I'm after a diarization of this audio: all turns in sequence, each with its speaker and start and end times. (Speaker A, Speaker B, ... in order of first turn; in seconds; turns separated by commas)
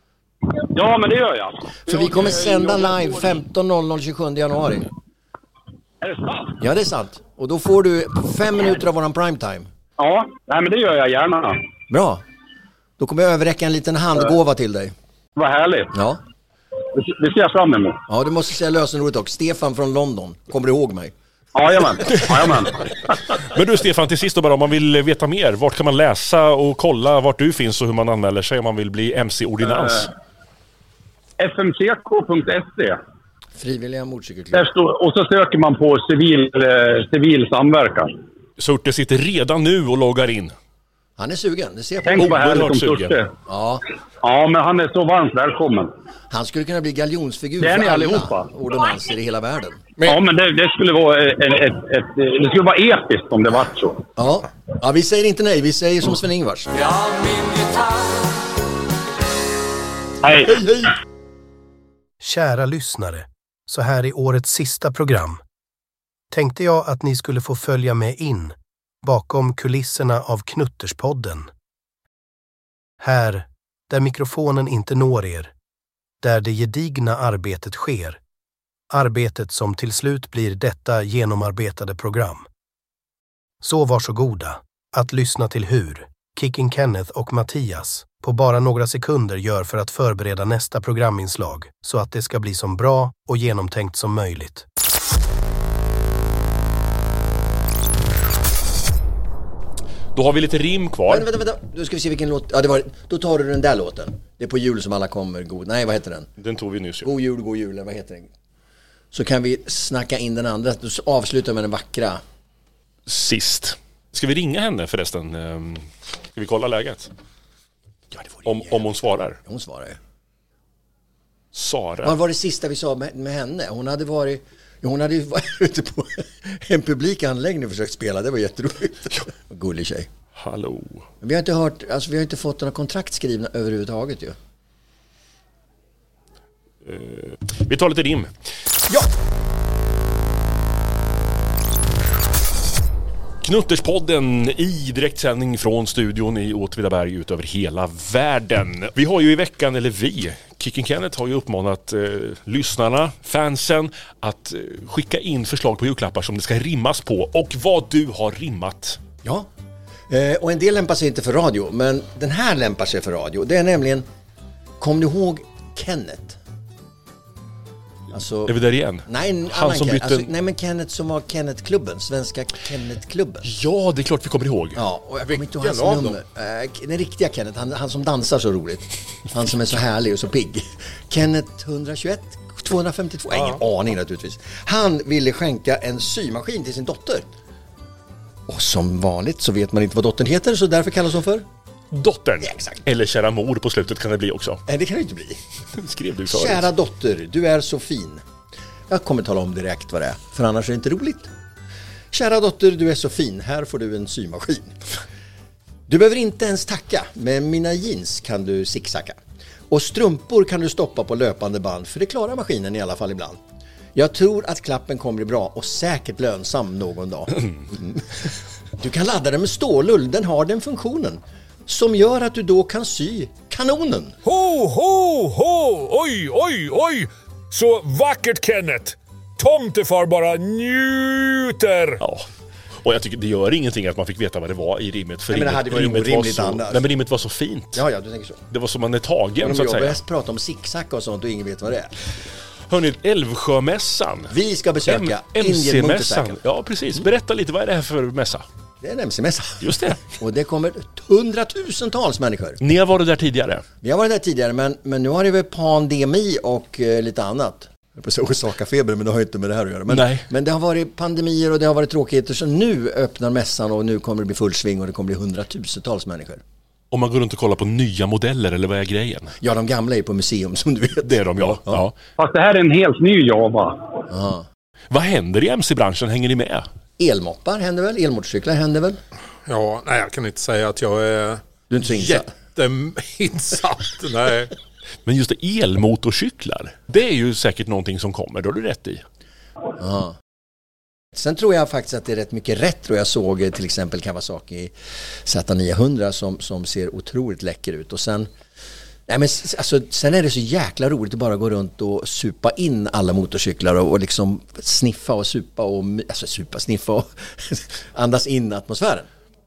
Speaker A: 0.7-3.0, Speaker B: 1.9-4.9, Speaker A: 6.0-6.6, Speaker B: 6.6-9.7, Speaker A: 10.0-11.6, Speaker B: 11.9-12.2, Speaker B: 13.0-14.9, Speaker A: 15.4-15.9, Speaker B: 15.9-16.2, Speaker A: 16.9-18.0, Speaker B: 18.1-21.1, Speaker A: 21.6-22.8, Speaker C: 23.5-30.1, Speaker A: 31.4-33.0, Speaker B: 33.5-34.7, Speaker A: 34.5-38.1, Speaker C: 38.6-40.5, Speaker B: 41.2-42.4, Speaker A: 42.1-43.3, Speaker C: 42.2-43.2, Speaker B: 43.5-43.8, Speaker A: 44.2-45.9, Speaker B: 46.3-49.8, Speaker A: 47.6-48.5, Speaker A: 50.0-54.0, Speaker B: 54.2-56.7, Speaker A: 57.4-57.7, Speaker A: 60.2-60.9, Speaker D: 62.2-65.4, Speaker D: 66.3-71.5, Speaker D: 73.0-75.5, Speaker D: 76.2-78.2, Speaker D: 78.9-82.5, Speaker D: 83.6-94.7, Speaker C: 100.2-101.3, Speaker B: 101.1-106.3, Speaker C: 106.4-107.1, Speaker B: 107.0-108.3, Speaker B: 109.1-112.2, Speaker C: 113.1-117.1, Speaker B: 118.1-118.8, Speaker C: 118.5-119.4, Speaker B: 119.5-120.0, Speaker C: 121.5-122.2, Speaker B: 122.0-130.1, Speaker C: 130.4-131.1, Speaker B: 131.2-134.4, Speaker C: 136.9-138.3, Speaker C: 143.4-159.0, Speaker B: 159.2-159.5, Speaker B: 160.1-164.1, Speaker B: 164.8-166.4, Speaker B: 168.1-168.6, Speaker C: 168.5-170.3, Speaker B: 169.1-173.5, Speaker C: 173.4-174.8, Speaker B: 174.8-187.3, Speaker E: 175.3-176.2, Speaker E: 183.3-183.6, Speaker B: 188.5-191.5, Speaker C: 191.9-194.6, Speaker B: 192.4-192.8, Speaker B: 194.7-195.4, Speaker C: 195.8-196.7, Speaker B: 196.3-198.2, Speaker B: 198.9-201.3, Speaker B: 202.1-204.8, Speaker B: 205.9-209.2, Speaker B: 209.7-213.4, Speaker B: 213.9-218.1, Speaker B: 218.8-224.2, Speaker F: 224.2-232.0, Speaker C: 232.0-232.3, Speaker C: 232.8-237.8, Speaker B: 235.3-236.9, Speaker B: 237.7-238.4, Speaker C: 238.5-240.0, Speaker B: 239.4-241.9, Speaker C: 242.7-244.3, Speaker B: 244.3-246.4, Speaker C: 244.9-248.4, Speaker B: 248.8-252.6, Speaker C: 249.6-250.0, Speaker C: 252.6-253.6, Speaker B: 253.8-266.4, Speaker C: 259.9-260.3, Speaker C: 266.9-269.4, Speaker B: 269.4-271.8, Speaker C: 271.0-271.9, Speaker A: 272.2-273.8, Speaker B: 274.1-274.5, Speaker C: 274.9-276.7, Speaker B: 277.0-279.0, Speaker E: 279.5-284.5, Speaker B: 281.7-282.3, Speaker C: 285.1-289.0, Speaker B: 289.8-290.2, Speaker B: 291.1-294.7, Speaker B: 295.2-298.3, Speaker B: 299.1-309.1